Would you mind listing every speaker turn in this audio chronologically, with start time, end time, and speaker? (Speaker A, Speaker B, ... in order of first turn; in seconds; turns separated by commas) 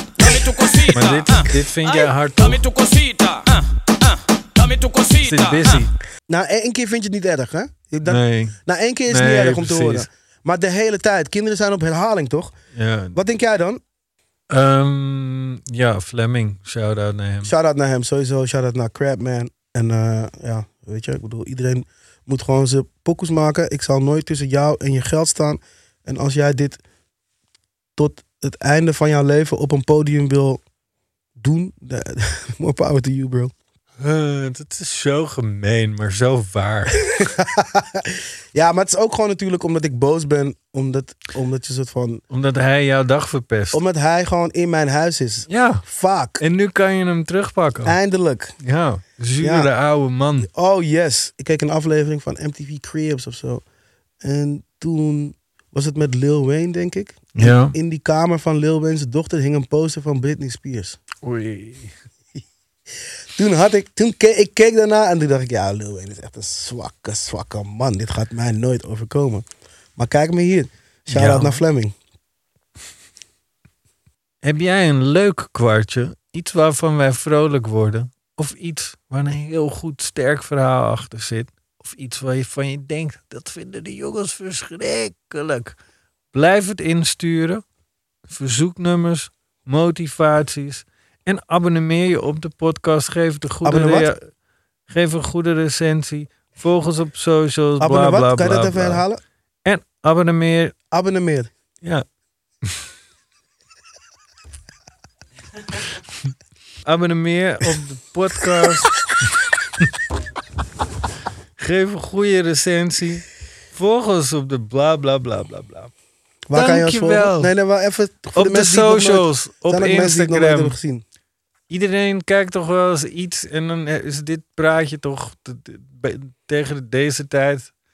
Speaker A: 0.2-0.6, Speaker B: 0.3-1.3, Speaker C: 0.9-2.6, Speaker B: 2.5-3.6, Speaker B: 4.6-5.6, Speaker C: 5.2-5.9, Speaker A: 6.3-12.5, Speaker C: 8.1-10.1, Speaker C: 12.7-13.2, Speaker A: 13.1-13.8, Speaker C: 14.5-17.5, Speaker A: 17.4-26.8, Speaker A: 28.0-30.6, Speaker A: 31.4-33.5, Speaker C: 34.0-37.0, Speaker A: 37.0-42.2, Speaker C: 42.3-43.8, Speaker A: 43.7-46.4, Speaker C: 45.5-45.9, Speaker C: 46.4-48.0, Speaker A: 47.9-48.5, Speaker C: 48.6-50.5, Speaker A: 49.4-49.7, Speaker A: 50.4-53.6, Speaker A: 54.2-61.0, Speaker C: 57.4-57.8, Speaker C: 61.2-61.9, Speaker A: 63.4-72.0, Speaker C: 71.1-71.6, Speaker C: 74.4-85.8, Speaker C: 86.3-87.6, Speaker C: 88.3-94.2, Speaker A: 93.7-94.1, Speaker C: 94.9-99.0, Speaker A: 97.8-99.2, Speaker C: 99.7-100.8, Speaker A: 100.9-101.5, Speaker C: 106.8-108.9, Speaker C: 111.6-115.9, Speaker A: 116.5-121.0, Speaker C: 116.5-117.5, Speaker C: 118.3-120.8, Speaker C: 121.7-127.7